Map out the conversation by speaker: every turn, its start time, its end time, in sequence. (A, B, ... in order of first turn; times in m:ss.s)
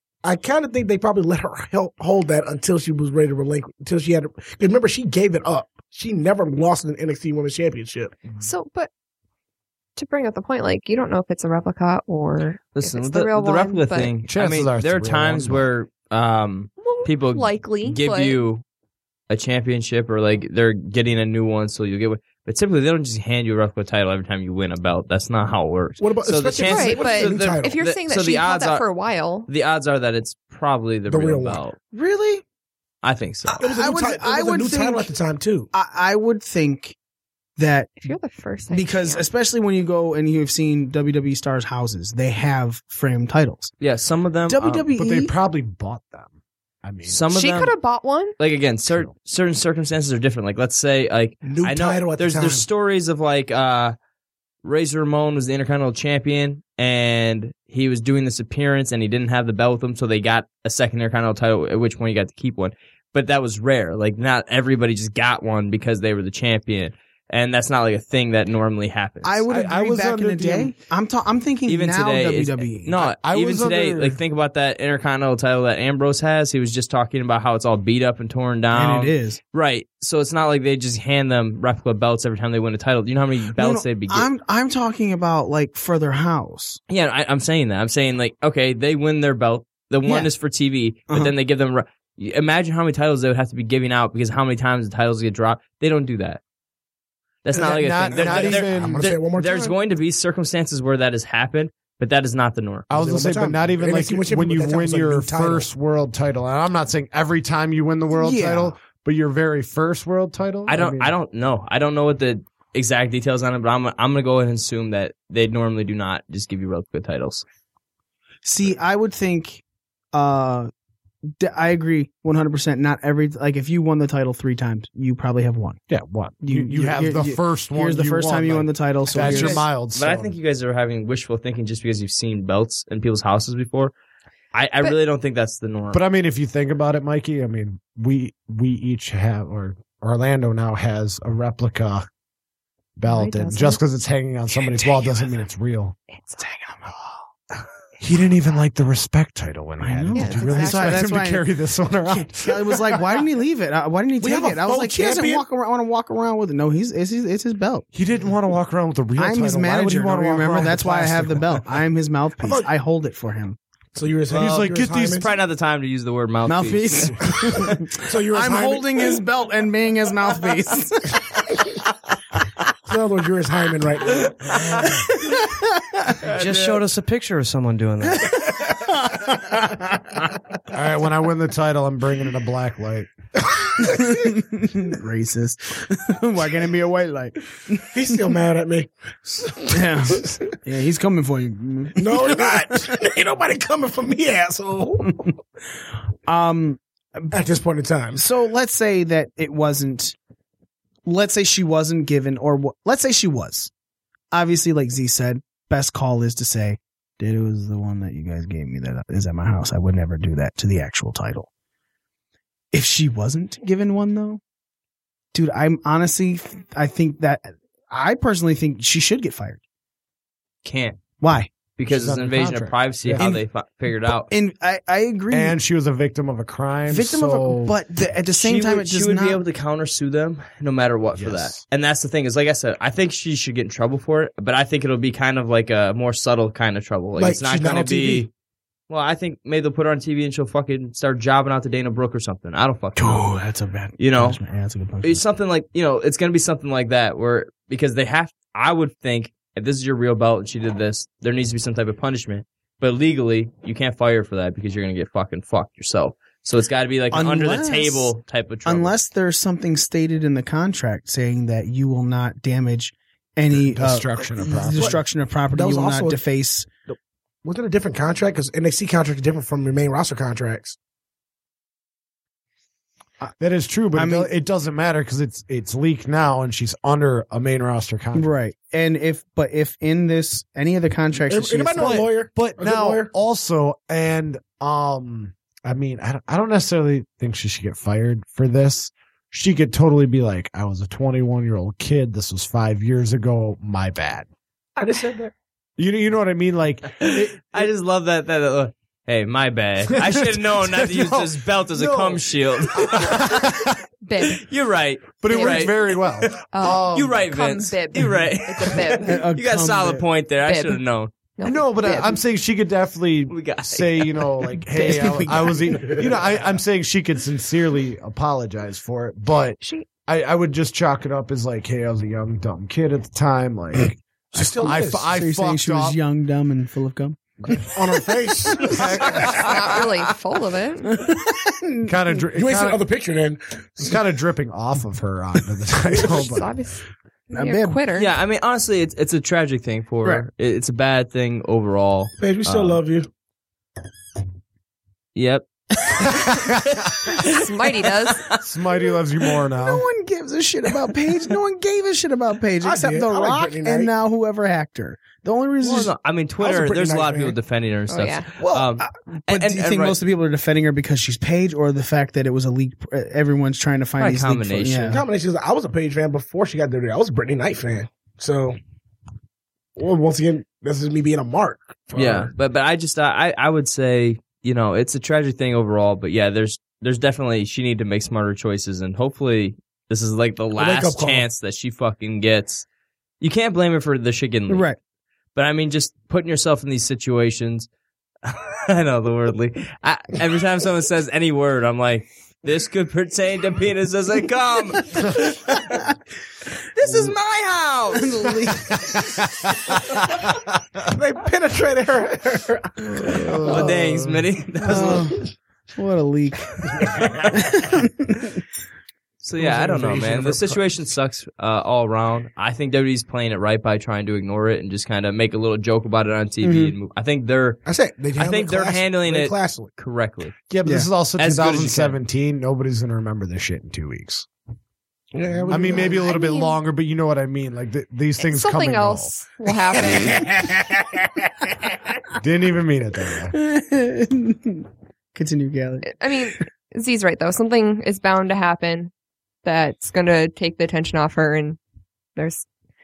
0:00.2-0:08.2 A
0:08.4-0:08.9 B
0:10.0-0:14.1 B
0:12.7-0:18.6 C
0:14.2-0:15.7 D
0:16.8-0:18.4 B
0:19.3-0:28.8 C
0:26.0-0:27.8 A
0:26.6-0:29.5 B
0:29.5-0:31.8 C
0:31.1-0:31.6 A
0:31.9-0:32.4 E
0:33.0-0:33.6 C
0:33.5-0:35.7 A
0:33.6-0:35.1 E
0:35.7-0:37.0 E
0:37.6-0:38.1 E
0:38.0-0:39.3 B
0:38.7-0:43.7 E
0:43.8-0:44.9 C
0:44.5-0:45.3 E
0:45.0-0:47.3 D
0:47.1-0:47.7 C
0:47.3-0:48.4 B
0:48.4-0:54.0 C
0:48.8-0:49.1 D
0:51.4-0:52.6 A
0:54.6-1:09.4 C
1:09.2-1:13.0 E
1:09.5-1:10.7 D
1:11.7-1:24.3 C
1:13.0-1:14.2 D
1:18.7-1:19.4 E
1:23.6-1:26.8 E
1:26.9-1:36.4 C
1:30.0-1:30.3 E
1:37.4-1:42.9 C
1:37.5-1:39.0 D
1:38.2-1:39.8 A
1:42.9-1:51.1 D
1:42.9-1:45.7 A
1:48.1-1:48.8 E
1:50.6-1:57.4 C
1:58.4-1:59.6 E
2:00.1-2:00.7 E
2:01.3-2:05.8 E
2:05.9-2:10.3 D
2:06.4-2:09.6 E
2:09.1-2:13.9 C
2:14.5-2:16.0 C
2:15.9-2:22.1 D
2:23.0-2:26.0 D
2:23.1-2:23.8 B
2:26.1-2:27.2 B
2:28.0-2:33.0 D
2:29.8-2:31.4 E
2:30.1-2:31.0 B
2:32.1-2:37.8 E
2:34.2-2:35.4 A
2:37.9-2:41.6 D
2:39.2-2:43.6 E
2:43.9-2:45.2 A
2:44.3-2:47.8 C
2:44.3-2:45.2 D
2:46.4-2:51.2 E
2:48.0-2:49.1 A
2:52.9-2:54.8 A
2:54.8-2:56.2 E
2:56.2-2:58.4 F
2:56.4-2:56.8 C
2:58.0-3:00.3 E
3:00.7-3:03.1 D
3:03.8-3:08.0 E
3:07.9-3:10.3 A
3:09.7-3:12.7 E
3:12.0-3:15.2 A
3:16.2-3:17.4 E
3:17.3-3:18.2 A
3:18.1-3:20.2 E
3:21.0-3:23.7 E
3:24.3-3:31.5 E
3:32.7-3:34.4 E
3:35.3-3:39.6 E
3:40.6-3:41.0 C
3:41.2-3:41.5 E
3:41.8-3:44.3 C
3:41.9-3:43.4 D
3:43.2-3:43.4 E
3:44.3-3:45.6 E
3:45.3-3:47.8 D
3:46.9-3:49.4 E
3:48.4-3:58.3 C
3:51.2-3:51.6 D
3:57.2-3:58.2 A
3:58.9-4:03.3 C
4:03.0-4:05.2 E
4:04.0-4:04.4 C
4:05.0-4:18.9 C
4:17.1-4:26.7 E
4:23.5-4:25.0 D
4:25.5-4:26.2 A
4:26.9-4:30.8 A
4:33.4-4:38.3 D
4:33.9-4:34.3 E
4:38.1-4:42.0 E
4:41.3-4:43.1 A
4:41.8-4:54.3 D
4:54.8-4:55.3 A
4:55.8-4:57.7 D
4:57.0-5:03.6 C
4:59.9-5:03.8 D
5:04.0-5:04.4 B
5:04.2-5:11.1 C
5:05.2-5:07.3 D
5:05.3-5:05.8 B
5:06.4-5:09.2 B
5:09.0-5:10.1 E
5:10.4-5:10.8 B
5:11.4-5:12.2 B
5:11.4-5:24.0 D
5:13.3-5:14.5 C
5:14.6-5:16.0 E
5:19.6-5:19.9 B
5:24.3-5:25.1 A
5:24.4-5:29.4 E
5:24.6-5:26.0 D
5:27.6-5:29.4 A
5:28.7-5:29.8 D
5:29.4-5:30.9 B
5:30.8-5:32.2 E
5:31.9-5:32.8 D
5:32.3-5:34.0 A
5:33.8-5:36.5 D
5:36.1-5:38.1 B
5:37.3-5:37.8 E
5:37.9-5:42.8 C
5:42.2-5:43.1 A
5:45.1-5:48.4 C
5:46.1-5:46.7 D
5:47.2-5:48.3 B
5:48.3-5:49.8 D
5:49.6-5:55.9 E
5:52.6-5:53.9 A
5:55.6-6:00.0 C
5:56.4-5:57.4 A
5:57.9-5:58.3 B
5:58.4-6:05.0 E
6:04.0-6:05.0 C
6:04.9-6:08.6 A
6:09.8-6:12.3 A
6:11.9-6:22.6 C
6:20.6-6:21.2 A
6:23.2-6:24.7 C
6:24.5-6:24.8 E
6:25.4-6:27.7 C
6:28.2-6:35.8 C
6:36.8-6:38.7 C
6:36.8-6:37.1 E
6:37.9-6:39.0 E
6:38.9-6:39.2 D
6:40.9-6:43.3 A
6:43.1-6:44.2 D
6:43.5-6:45.1 C
6:44.6-6:48.4 E
6:49.2-6:57.6 C
6:49.4-6:50.6 A
6:56.4-6:56.8 E
6:57.6-6:59.7 A
6:58.2-7:00.3 C
7:00.5-7:04.3 D
7:01.2-7:02.0 C
7:05.1-7:06.1 A
7:05.4-7:09.2 D
7:05.9-7:06.6 B
7:08.2-7:10.3 B
7:09.8-7:11.5 A
7:12.2-7:13.3 D
7:13.3-7:15.9 E
7:15.8-7:18.9 B
7:19.4-7:21.6 B
7:22.2-7:22.4 B